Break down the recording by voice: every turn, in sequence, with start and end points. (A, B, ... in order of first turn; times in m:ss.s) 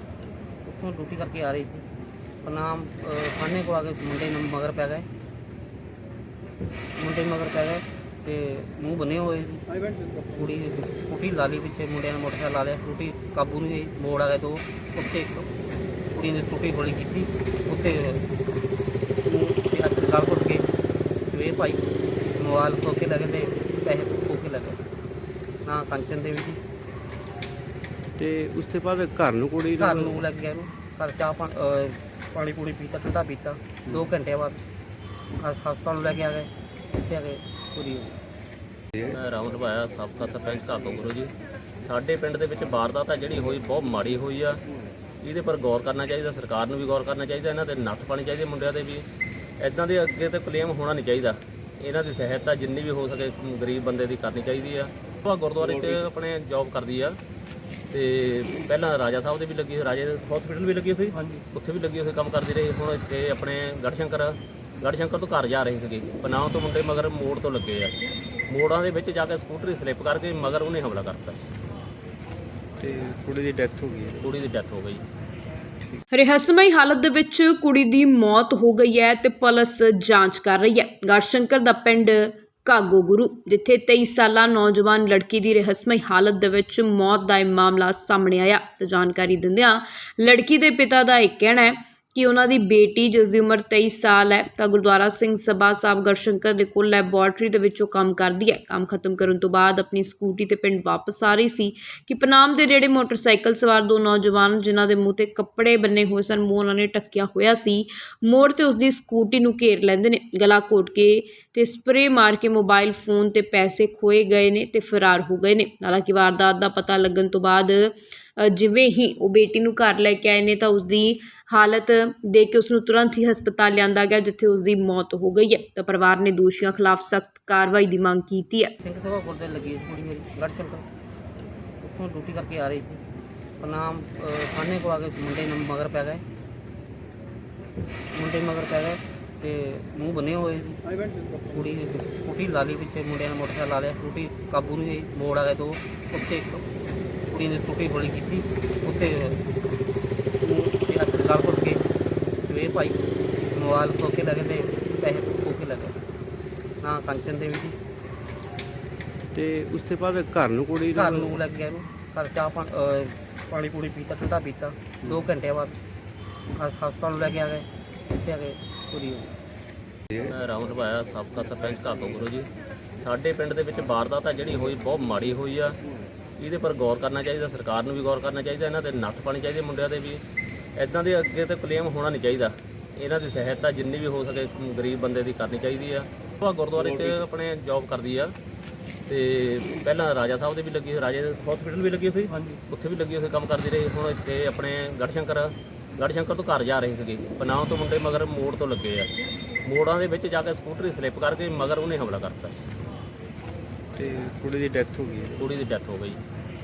0:00.6-0:01.8 A
0:02.4-0:05.1 A
0:07.0-0:15.4 A
0:16.1-0:18.2 A
0:19.2-0:20.6 A
0:21.3-0:21.8 A
0:22.4-0:24.8 A
0:25.6-0:26.6 A
0:28.2-0:30.2 B
0:29.8-0:34.6 A
0:35.4-0:36.5 A
0:37.0-0:38.2 A
0:39.1-0:41.3 C
0:41.8-0:44.6 C
0:45.2-0:49.0 C
0:49.6-0:57.2 C
0:57.9-1:08.0 C
1:01.1-1:01.4 A
1:08.5-1:11.4 C
1:12.8-1:14.2 B
1:14.2-1:15.0 C
1:16.1-2:08.7 D
2:08.8-2:10.8 A
2:11.8-2:13.0 A
2:13.6-2:16.2 A
2:18.1-2:26.6 A
2:27.3-2:29.4 A
2:30.4-2:31.8 A
2:32.4-2:33.0 A
2:33.5-2:36.0 A
2:36.8-2:37.8 A
2:39.3-2:41.4 B
2:40.9-2:45.8 A
2:46.5-2:49.3 A
2:50.2-2:52.5 C
2:53.0-2:55.8 C
2:56.4-3:00.2 C
3:00.8-3:08.3 C
3:09.1-3:19.1 C
3:12.2-3:12.6 A
3:19.6-3:22.6 C
3:23.9-3:25.4 B
3:25.4-3:26.2 C